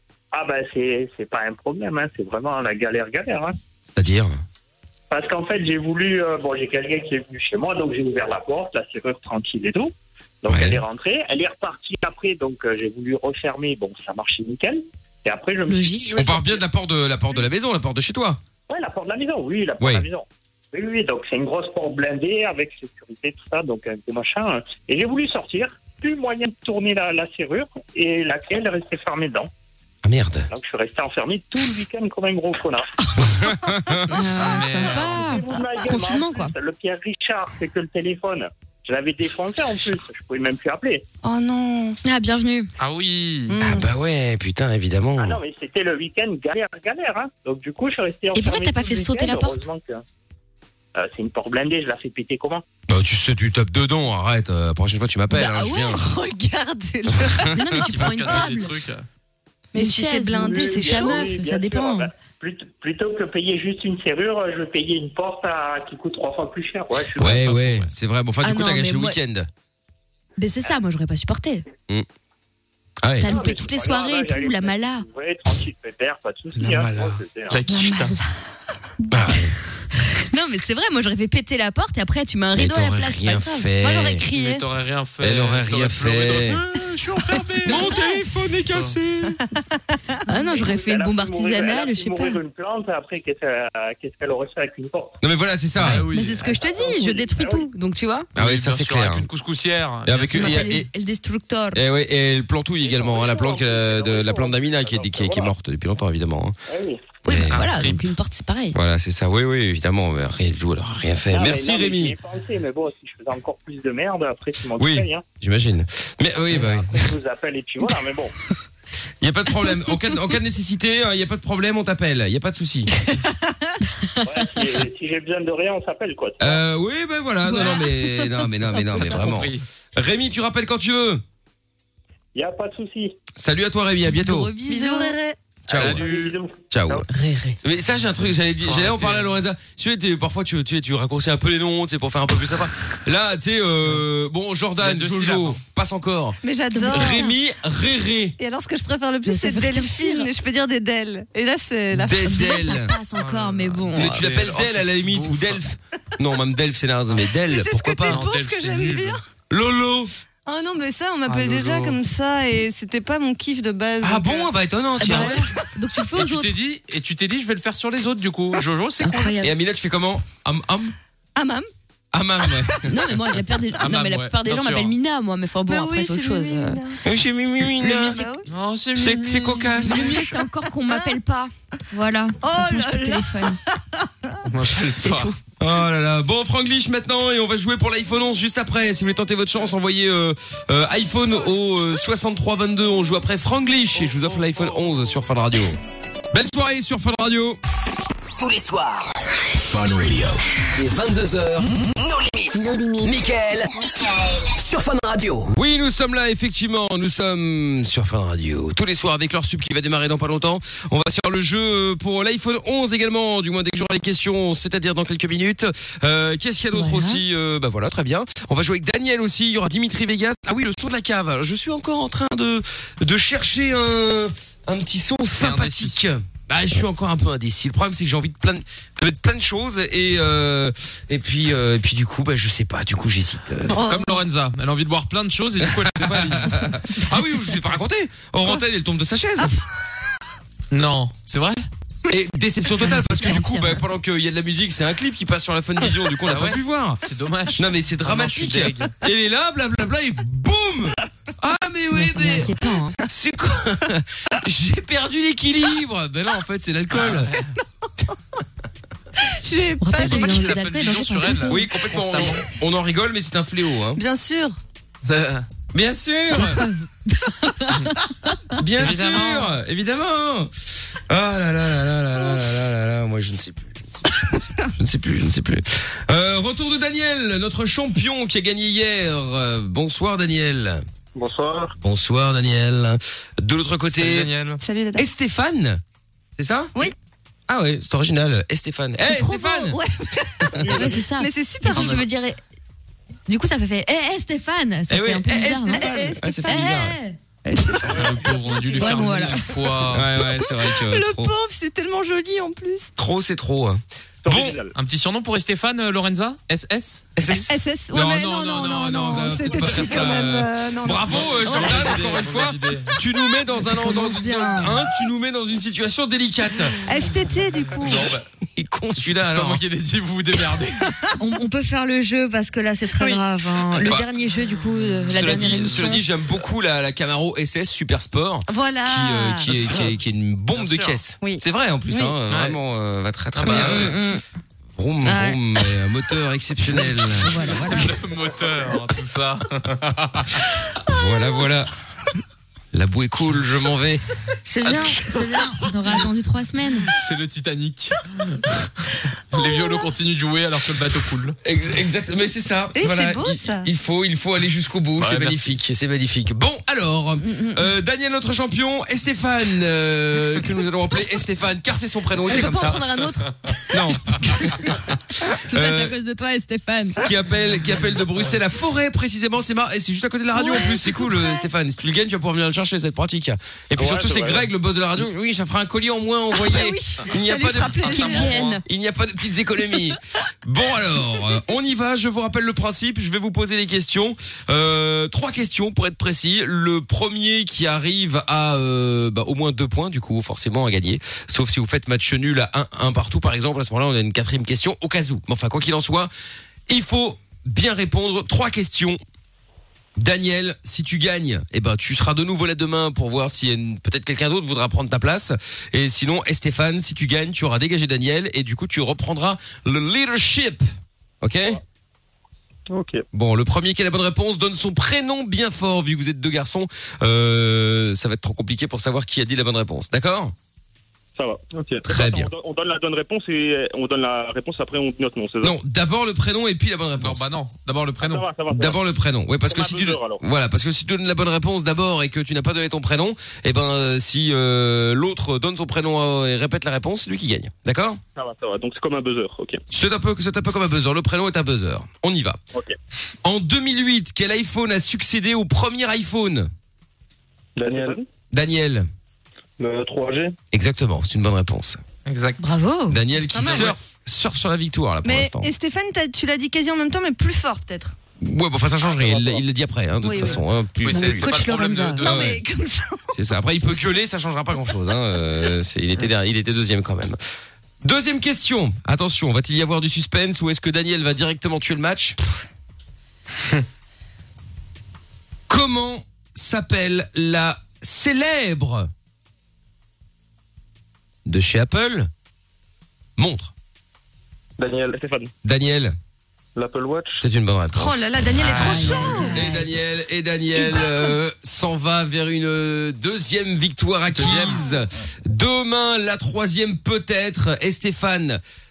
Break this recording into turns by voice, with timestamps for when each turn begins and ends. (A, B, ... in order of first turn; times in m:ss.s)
0:00.3-0:03.6 A
0:03.9-0:04.4 B
0:05.1-0:16.6 A
0:10.5-0:10.8 B
0:15.7-0:16.2 C
0:16.2-0:18.4 B
0:18.7-0:29.5 A
0:19.8-0:20.1 B
0:30.0-0:30.5 B
0:30.5-0:32.9 A
0:33.2-0:34.2 B
0:34.1-0:36.5 C
0:34.4-0:35.3 D
0:34.8-0:41.0 A
0:41.2-0:42.0 E
0:42.0-0:42.7 C
0:42.8-0:43.5 D
0:43.5-0:43.9 E
0:43.6-0:45.4 B
0:45.2-0:50.0 A
0:48.3-0:49.6 C
0:50.9-0:52.6 A
0:52.9-0:56.0 B
0:55.3-0:56.0 C
0:55.8-0:57.5 E
0:57.1-0:57.8 B
0:57.5-0:58.7 C
0:57.8-0:59.0 D
0:59.7-1:01.3 E
0:59.7-1:02.1 C
1:00.4-1:07.5 A
1:07.1-1:09.5 B
1:07.2-1:07.9 D
1:08.4-1:09.2 C
1:10.4-1:11.6 C
1:13.0-1:13.5 B
1:13.2-1:15.0 C
1:13.2-1:17.6 A
1:16.6-1:18.1 D
1:17.7-1:18.3 E
1:19.1-1:19.5 B
1:19.9-1:23.6 C
1:22.5-1:24.2 B
1:23.8-1:24.6 E
1:24.3-1:27.9 D
1:25.2-1:26.6 B
1:27.6-1:29.4 B
1:28.7-1:29.0 D
1:30.2-1:32.4 C
1:30.4-1:35.1 A
1:35.2-1:36.0 B
1:35.8-1:36.5 D
1:36.1-1:38.3 C
1:36.4-1:37.7 A
1:38.3-1:39.3 B
1:38.4-1:40.7 D
1:40.0-1:40.9 B
1:40.3-1:41.8 C
1:41.7-1:46.6 B
1:42.8-1:45.5 A
1:46.7-1:47.1 A
1:47.2-1:47.7 B
1:47.2-1:48.8 C
1:47.5-1:48.0 D
1:48.7-1:52.2 B
1:51.3-1:55.2 A
1:54.7-1:57.1 B
1:56.5-1:58.3 A
1:59.2-2:02.9 B
2:04.0-2:04.4 C
2:04.2-2:06.6 A
2:06.4-2:11.2 B
2:07.4-2:07.9 C
2:08.7-2:09.2 C
2:09.0-2:09.6 D
2:12.3-2:13.1 A
2:13.4-2:14.5 B
2:14.1-2:15.2 C
2:14.7-2:15.4 E
2:15.7-2:16.1 B
2:15.7-2:16.4 D
2:15.7-2:17.0 A
2:16.7-2:17.0 B
2:17.1-2:17.6 C
2:17.6-2:28.4 B
2:18.6-2:19.4 D
2:24.8-2:25.6 D
2:26.4-2:27.3 E
2:26.7-2:27.4 C
2:28.4-2:32.3 E
2:29.2-2:30.3 C
2:31.9-2:32.9 B
2:32.2-2:34.1 C
2:33.1-2:35.6 D
2:33.9-2:38.2 B
2:37.3-2:39.2 E
2:38.1-2:39.2 D
2:39.5-2:40.1 B
2:40.4-2:44.5 E
2:41.2-2:42.0 D
2:44.0-2:45.4 B
2:45.0-2:46.5 C
2:46.2-2:49.3 D
2:49.0-2:49.5 C
2:49.4-2:50.9 B
2:51.4-2:51.7 E
2:52.1-2:53.0 B
2:52.5-2:52.9 E
2:52.8-2:56.8 C
2:53.8-2:54.9 D
2:55.7-2:57.0 E
2:57.0-2:58.2 B
2:57.8-2:58.3 C
2:57.8-2:58.5 E
2:58.5-3:00.2 D
2:58.9-3:00.3 B
2:59.8-3:03.6 C
3:02.4-3:04.4 E
3:04.4-3:05.3 D
3:05.0-3:05.4 C
3:05.6-3:15.8 B
3:16.3-3:17.6 B
3:18.3-3:25.5 F
3:22.7-3:23.1 E
3:25.5-3:53.8 B
3:36.7-3:37.2 C
3:45.4-3:46.0 D
3:53.7-3:56.7 D
3:53.7-3:54.2 E
3:55.6-3:59.6 B
4:00.7-4:01.6 D
4:02.1-4:07.0 B
4:02.8-4:03.8 C
4:06.3-4:08.9 D
4:07.5-4:12.5 B
4:11.9-4:13.0 C
4:13.0-4:17.4 B
4:16.9-4:17.5 D
4:19.3-4:20.5 E
4:19.8-4:21.7 C
4:20.0-4:22.4 D
4:21.5-4:24.0 B
4:23.9-4:24.6 E
4:25.0-4:25.4 D
4:25.7-4:26.6 B
4:26.3-4:28.6 C
4:28.6-4:40.8 B
4:28.8-4:29.5 D
4:41.1-4:41.7 G
4:41.8-4:44.3 B
4:43.9-4:44.6 D
4:44.6-4:45.1 E
4:45.0-4:45.8 B
4:46.4-4:46.7 B
4:47.5-4:49.8 B
4:49.0-4:52.1 E
4:50.4-4:50.9 B
4:50.7-4:52.4 C
4:53.3-4:57.2 C
4:54.9-4:58.1 B
4:55.6-4:56.8 E
4:57.6-4:59.1 E
4:57.9-5:00.1 D
4:58.7-4:59.5 C
4:59.9-5:01.3 B
5:00.2-5:02.9 E
5:03.0-5:04.6 B
5:04.2-5:04.7 A
5:04.7-5:07.2 D
5:07.2-5:16.8 B
5:07.5-5:12.3 E
5:09.2-5:10.3 D
5:11.1-5:13.0 D
5:13.7-5:14.7 C
5:16.8-5:18.2 E
5:17.8-5:18.2 D
5:18.6-5:19.6 B
5:19.0-5:21.1 D
5:21.2-5:26.0 C
5:23.8-5:24.1 B
5:25.1-5:34.0 B
5:28.5-5:29.4 E
5:29.4-5:30.0 D
5:30.5-5:31.0 D
5:31.2-5:32.1 E
5:32.3-5:32.6 D
5:33.3-5:33.9 D
5:33.5-5:34.2 C
5:34.7-5:37.4 B
5:35.0-5:35.4 C
5:37.2-5:37.9 C
5:37.5-5:40.6 D
5:40.8-5:41.7 B
5:42.7-5:44.0 B
5:44.5-5:46.9 C
5:46.9-5:51.4 D
5:51.4-6:02.8 B
5:52.7-5:53.7 E
5:55.0-5:55.5 D
5:57.2-5:57.6 C
6:02.3-6:03.8 C
6:03.7-6:05.9 B
6:05.4-6:07.0 C
6:07.0-6:36.1 B
6:10.4-6:11.5 E
6:13.8-6:14.4 A
6:16.4-6:18.4 E
6:17.8-6:18.6 C
6:36.7-6:39.0 B
6:40.0-6:50.6 B
6:51.2-6:51.6 B
6:52.7-6:53.0 A
6:53.1-7:00.3 B
7:01.2-7:05.5 A
7:01.8-7:02.3 B
7:05.4-7:07.3 B
7:07.0-7:08.3 D
7:08.0-7:08.8 A
7:08.5-7:18.0 B
7:09.5-7:10.2 A
7:18.2-7:19.6 A
7:19.7-7:22.4 B
7:23.2-7:26.5 B
7:27.6-7:28.0 G
7:27.6-7:28.0 A
7:28.3-7:28.9 B
7:29.6-7:30.4 G
7:30.5-7:31.8 B
7:32.0-7:32.6 D
7:32.4-7:33.0 C
7:32.9-7:35.5 B
7:33.3-7:33.8 E
7:33.4-7:33.7 D
7:35.0-7:38.0 E
7:38.2-7:41.4 B
7:40.0-7:40.4 E
7:40.2-7:42.3 D
7:40.9-7:42.0 C
7:42.0-7:42.4 B
7:42.0-7:43.2 E
7:43.1-7:47.2 B
7:47.8-7:52.2 B
7:55.5-7:58.9 B
8:01.2-8:02.1 B
8:03.2-8:03.5 B
8:04.6-8:05.0 G
8:04.9-8:05.3 A
8:05.4-8:06.0 B
8:06.6-8:07.2 G
8:07.2-8:18.4 B
8:07.7-8:09.4 E
8:08.4-8:09.2 D
8:08.4-8:09.7 C
8:10.7-8:11.1 E
8:14.1-8:14.6 D